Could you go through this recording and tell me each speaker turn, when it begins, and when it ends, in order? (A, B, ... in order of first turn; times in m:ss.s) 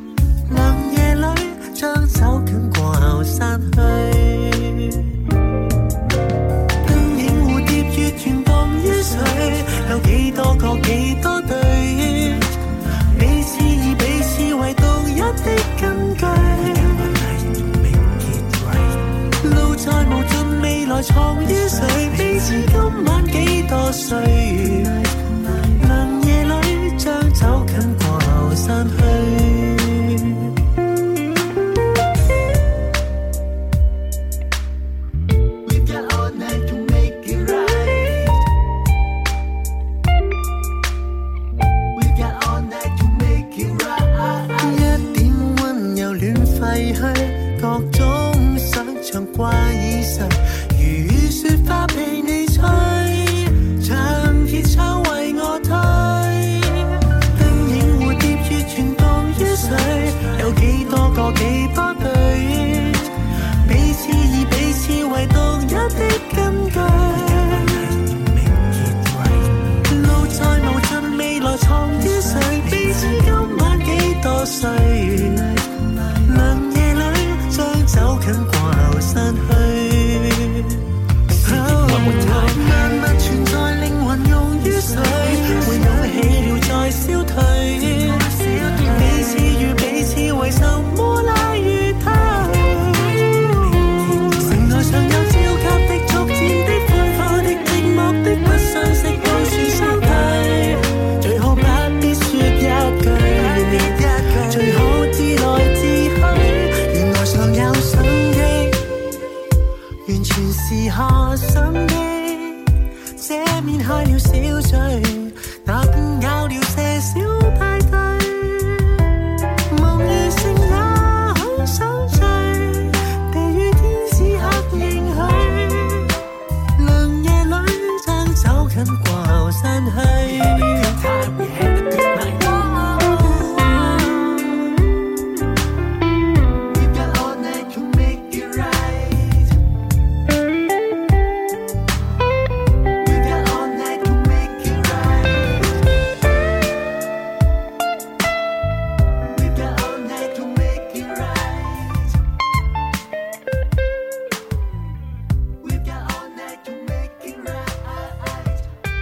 0:00.5-0:05.1 A
0:06.8-0:12.5 A
0:13.1-0:30.5 A
0:35.6-0:38.4 A
0:42.0-1:20.8 A
1:21.4-1:48.8 A
1:50.0-1:52.6 A
1:53.1-1:59.1 A
1:59.7-2:06.2 A
2:06.8-2:14.7 A
2:16.7-2:19.5 A
2:23.0-2:25.5 A
2:29.3-2:32.1 A
2:35.6-2:38.5 A